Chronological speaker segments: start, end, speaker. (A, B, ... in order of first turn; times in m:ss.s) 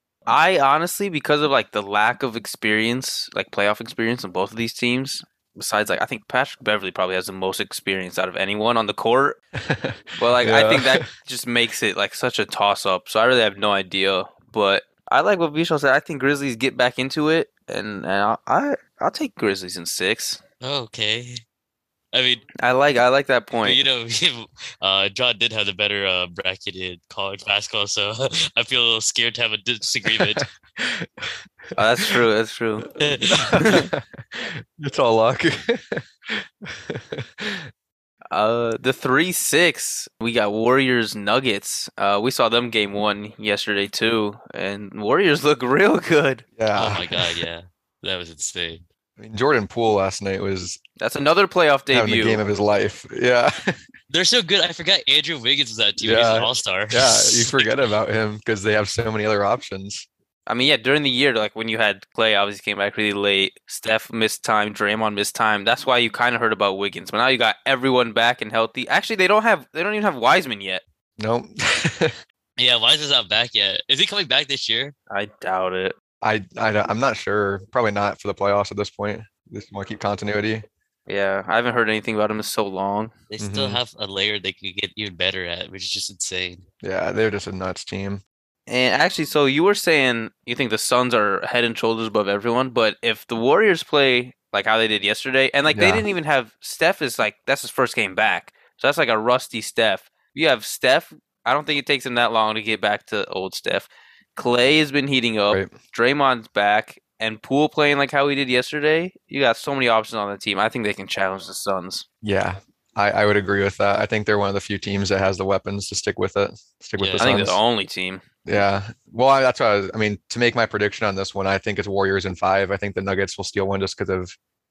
0:00.3-0:09.4 A
0:09.6-0:11.1 B
0:10.2-0:20.4 A
0:20.6-0:21.4 C
0:22.1-0:22.5 C
0:22.6-0:23.8 A
0:23.6-0:30.5 C
0:30.0-0:31.8 B
0:31.8-0:32.9 A
0:33.0-0:33.7 C
0:33.3-0:37.7 B
0:33.5-0:33.9 A
0:38.3-0:46.4 A
0:46.6-0:47.4 B
0:46.7-0:48.8 C
0:49.2-0:50.8 B
0:51.0-0:52.4 A
0:51.9-0:53.7 B
0:54.1-0:57.7 C
0:56.0-1:00.1 B
1:00.5-1:10.8 A
1:11.2-1:12.2 B
1:12.6-1:14.9 C
1:15.1-1:15.9 A
1:16.2-1:20.6 B
1:21.1-1:23.1 A
1:23.3-1:26.6 C
1:23.4-1:23.8 B
1:26.8-1:28.2 B
1:28.7-1:52.0 A
1:35.7-1:36.0 B
1:52.2-1:57.6 B
1:57.0-1:57.5 C
1:57.2-1:58.2 A
1:58.4-2:04.3 B